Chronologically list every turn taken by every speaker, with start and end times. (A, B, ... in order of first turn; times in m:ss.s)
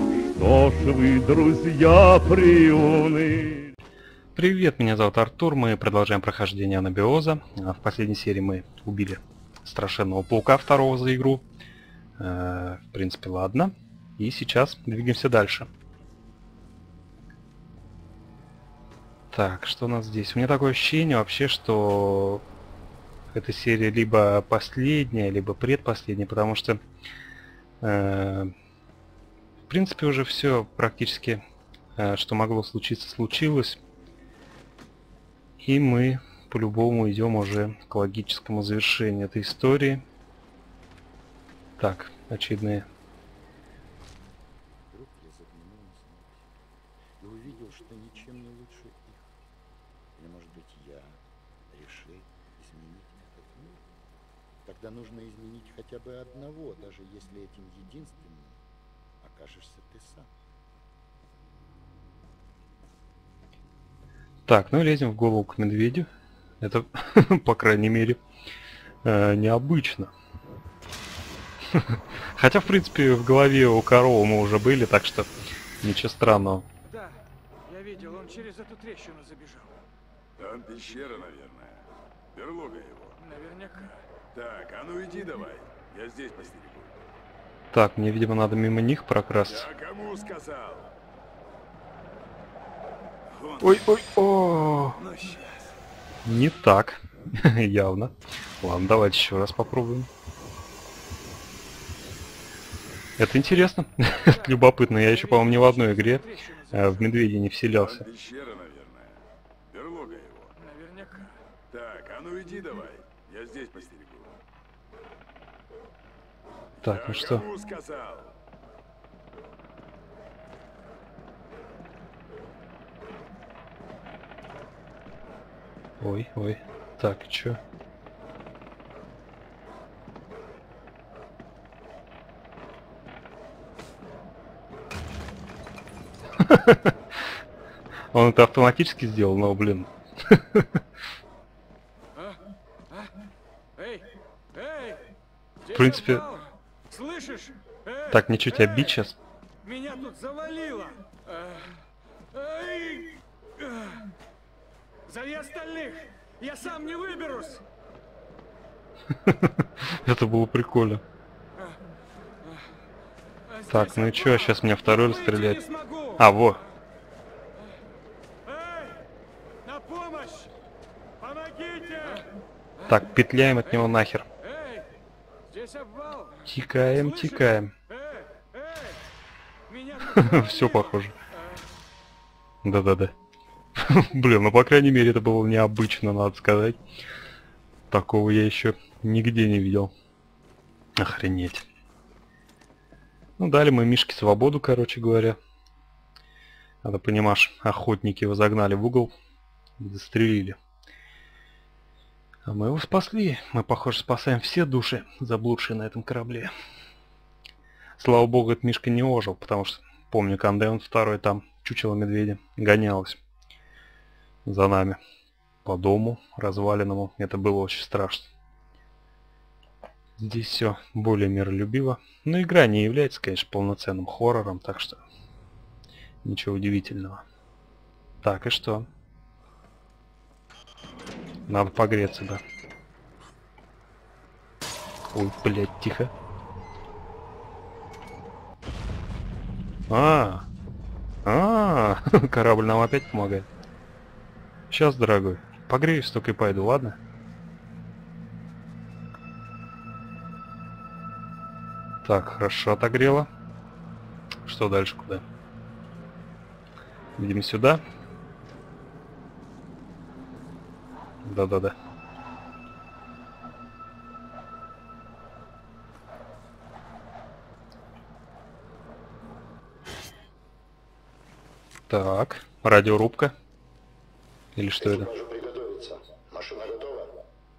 0:00.3-0:03.6 A
0:04.4-0:11.4 B
0:12.2-0:15.7 B
0:19.3-0:22.4 B
0:23.3-0:26.8 B
0:27.8-0:28.5 B
0:29.7-0:31.4 B
0:32.0-0:33.8 B
0:35.6-0:40.0 B
0:41.8-0:42.8 B
0:44.9-0:46.6 C
0:47.2-0:49.3 C
0:50.2-0:53.8 C
0:54.6-0:58.6 C
0:59.2-1:00.3 C
1:04.5-1:06.1 B
1:06.6-1:08.2 B
1:09.0-1:10.1 B
1:11.7-1:15.3 B
1:15.8-1:16.6 B
1:16.8-1:19.8 D
1:20.4-1:23.2 E
1:23.2-1:24.0 D
1:24.3-1:26.9 E
1:27.7-1:29.7 B
1:29.4-1:30.9 E
1:33.3-1:34.1 E
1:33.6-1:35.0 B
1:34.9-1:35.7 E
1:36.2-1:40.1 B
1:43.2-1:48.0 B
1:43.4-1:47.3 D
1:47.8-1:50.5 E
1:50.6-1:51.4 D
1:51.7-1:54.4 E
1:56.8-1:58.3 E
1:56.8-1:57.5 B
2:06.0-2:07.6 B
2:16.4-2:16.9 B
2:18.1-2:20.8 B
2:22.2-2:23.1 D
2:23.8-2:25.0 D
2:25.6-2:29.0 D
2:25.7-2:26.2 B
2:28.1-2:29.2 B
2:29.6-2:31.8 D
2:32.3-2:34.0 D
2:35.1-2:37.6 D
2:39.2-2:41.0 B
2:43.5-2:46.6 D
2:43.7-2:45.6 B
2:46.2-2:46.6 B
2:48.4-2:49.0 D
2:49.6-2:50.5 D
2:51.2-2:52.3 D
2:52.9-2:54.2 B
2:53.6-2:54.9 D
2:55.5-2:59.0 D
2:56.5-2:57.7 B
2:59.7-3:01.6 D
3:00.1-3:01.1 B
3:02.6-3:03.1 B
3:03.8-3:06.8 B
3:07.9-3:09.9 B
3:11.0-3:11.6 B
3:13.4-3:15.4 B
3:16.8-3:19.1 B
3:19.8-3:20.6 B
3:22.4-3:26.5 B
3:28.0-3:33.2 B
3:34.4-3:35.0 B
3:35.6-3:38.3 B
3:40.2-3:45.0 B
3:46.2-3:47.2 B
3:48.2-3:48.9 B
3:51.5-3:52.4 B
3:55.1-3:56.1 B
3:59.9-4:00.4 B
4:01.2-4:03.5 B
4:04.7-4:07.0 B
4:12.0-4:13.3 B
4:14.4-4:15.2 B
4:17.2-4:17.8 B
4:21.2-4:21.7 B
4:31.9-4:33.3 B
4:34.6-4:35.1 B
4:34.8-4:37.2 C